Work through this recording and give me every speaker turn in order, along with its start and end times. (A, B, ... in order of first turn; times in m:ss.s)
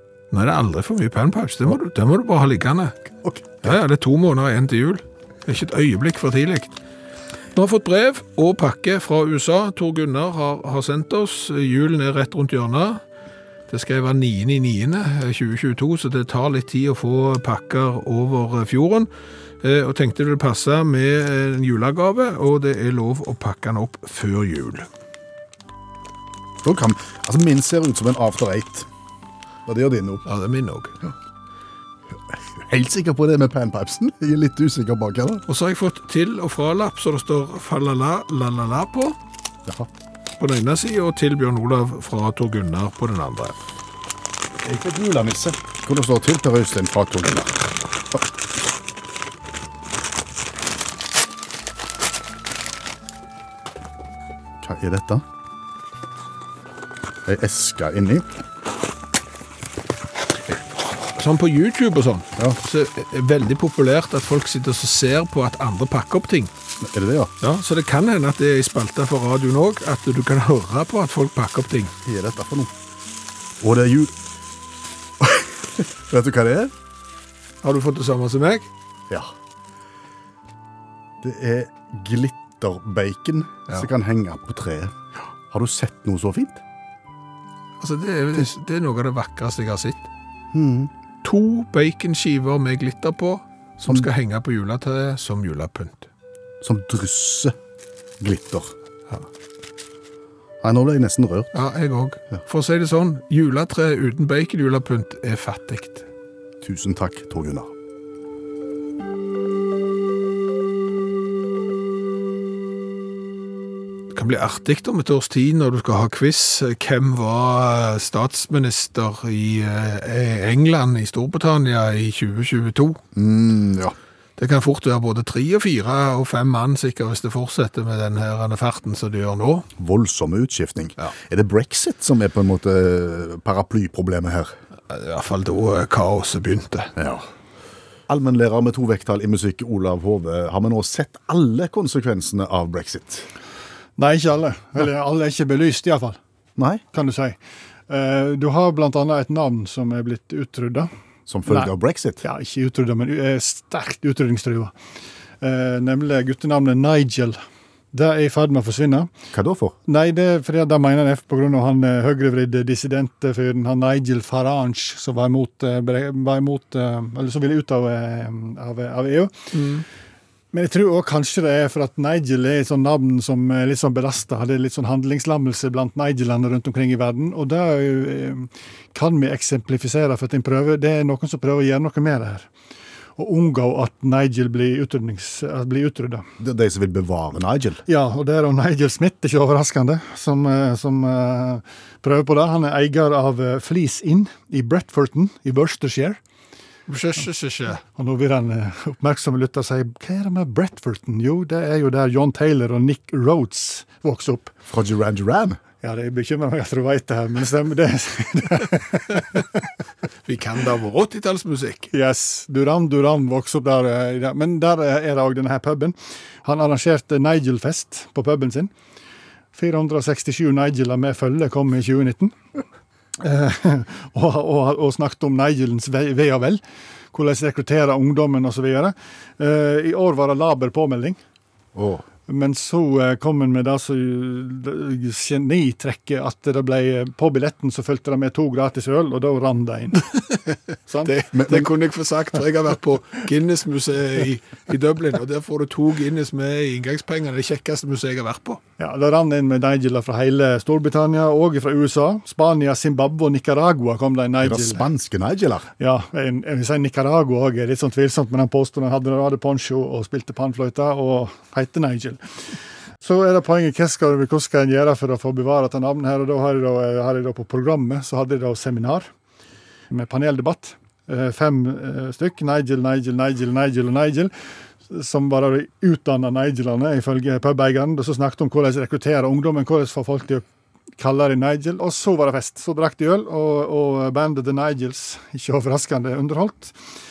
0:00.3-0:03.0 A
0:03.2-0:03.8 B
0:03.6-0:06.7 A
0:07.5-0:13.0 A
0:13.7-0:19.1 A
0:19.6-0:24.9 A
0:26.6-0:28.9 B
0:29.6-0:30.2 B
0:30.2-0:31.0 A
0:32.3-0:35.4 B
0:35.5-0:39.2 A
0:40.4-0:43.5 A
0:44.6-0:47.6 B
0:54.6-0:55.2 B
0:57.2-0:58.2 B
1:01.1-1:06.5 A
1:06.8-1:07.3 B
1:07.4-1:11.9 A
1:12.0-1:12.7 B
1:13.6-1:14.1 B
1:15.2-1:16.7 B
1:17.6-1:18.7 A
1:21.2-1:25.0 B
1:25.5-1:26.6 B
1:27.8-1:30.1 A
1:30.5-1:30.9 B
1:31.2-1:36.1 A
1:33.8-1:34.1 B
1:36.6-1:37.5 B
1:38.2-1:38.7 B
1:40.6-1:41.5 B
1:41.5-1:46.0 A
1:46.6-1:47.7 B
1:54.1-2:03.0 A
2:03.1-2:04.0 B
2:04.4-2:09.7 A
2:09.8-2:14.5 B
2:14.9-2:16.9 A
2:17.0-2:17.2 B
2:18.1-2:23.3 B
2:24.0-2:26.2 C
2:26.6-2:26.8 B
2:26.9-2:27.4 C
2:27.9-2:30.9 C
2:31.3-2:32.2 B
2:32.2-2:34.7 C
2:35.4-2:37.4 C
2:37.9-2:39.1 C
2:39.3-2:39.8 B
2:39.9-2:49.3 C
2:49.5-2:49.8 A
2:50.5-3:02.5 C
3:03.2-3:06.2 C
3:06.4-3:07.8 B
3:07.9-3:16.2 C
3:16.9-3:17.8 A
3:17.9-3:24.5 C
3:24.7-3:25.6 B
3:25.8-3:29.6 C
3:30.2-3:31.9 A
3:31.9-3:38.7 C
3:39.5-3:42.3 C
3:43.2-3:46.6 C
3:47.1-3:51.2 C
3:51.8-3:52.0 B
3:52.3-4:00.4 C
4:00.9-4:01.1 C
4:01.0-4:08.6 A
4:01.3-4:01.7 B
4:08.8-4:14.9 C
4:14.4-4:15.7 B
4:15.8-4:22.2 C
4:23.0-4:29.1 C
4:29.9-4:34.3 C
4:34.9-4:40.4 C
4:41.0-4:46.8 C